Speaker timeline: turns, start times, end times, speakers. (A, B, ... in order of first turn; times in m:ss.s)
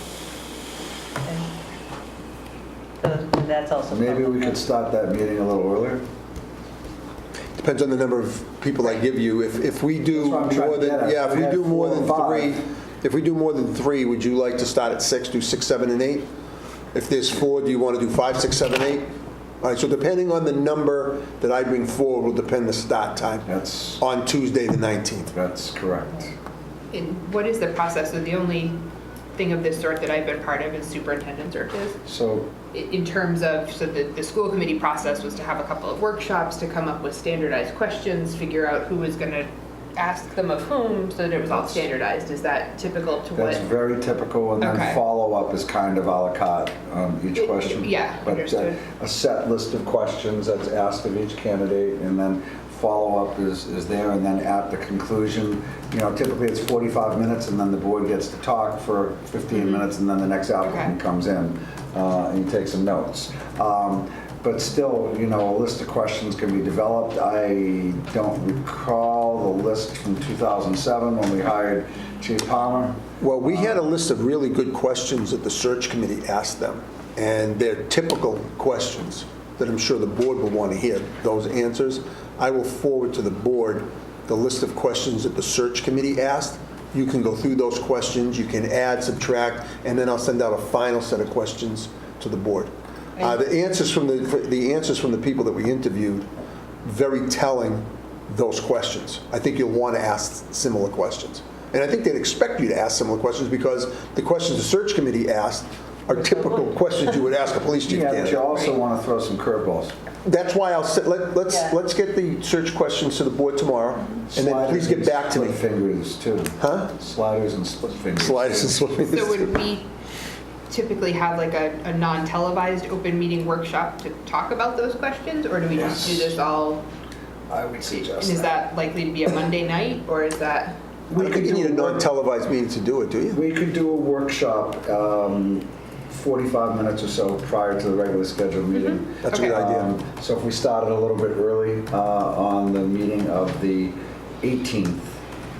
0:03.0-0:04.6 A
0:03.9-0:06.0 B
0:07.6-0:16.3 C
0:10.1-0:12.5 B
0:16.9-0:23.5 C
0:23.5-0:24.0 B
0:24.0-0:25.3 C
0:25.3-0:26.3 B
0:26.9-0:28.8 D
0:29.4-0:32.0 D
0:32.0-0:32.5 B
0:32.7-0:43.6 D
0:41.5-0:41.9 B
0:43.3-1:13.7 B
0:44.6-0:45.0 D
0:47.4-0:48.9 D
0:59.5-0:59.8 D
1:00.6-1:01.0 D
1:13.2-1:36.3 C
1:36.8-1:48.5 C
1:47.8-1:49.9 B
1:48.5-1:48.8 D
1:50.2-1:55.6 C
1:51.5-1:51.8 A
1:54.3-1:58.8 B
1:56.6-1:56.9 C
1:58.2-1:59.5 C
1:59.1-1:59.9 D
2:00.7-2:06.8 D
2:05.7-2:06.3 B
2:07.5-2:08.6 B
2:07.8-2:10.8 D
2:11.1-2:12.1 B
2:11.2-2:13.4 C
2:13.3-2:25.2 B
2:18.7-2:19.6 D
2:19.2-2:19.9 C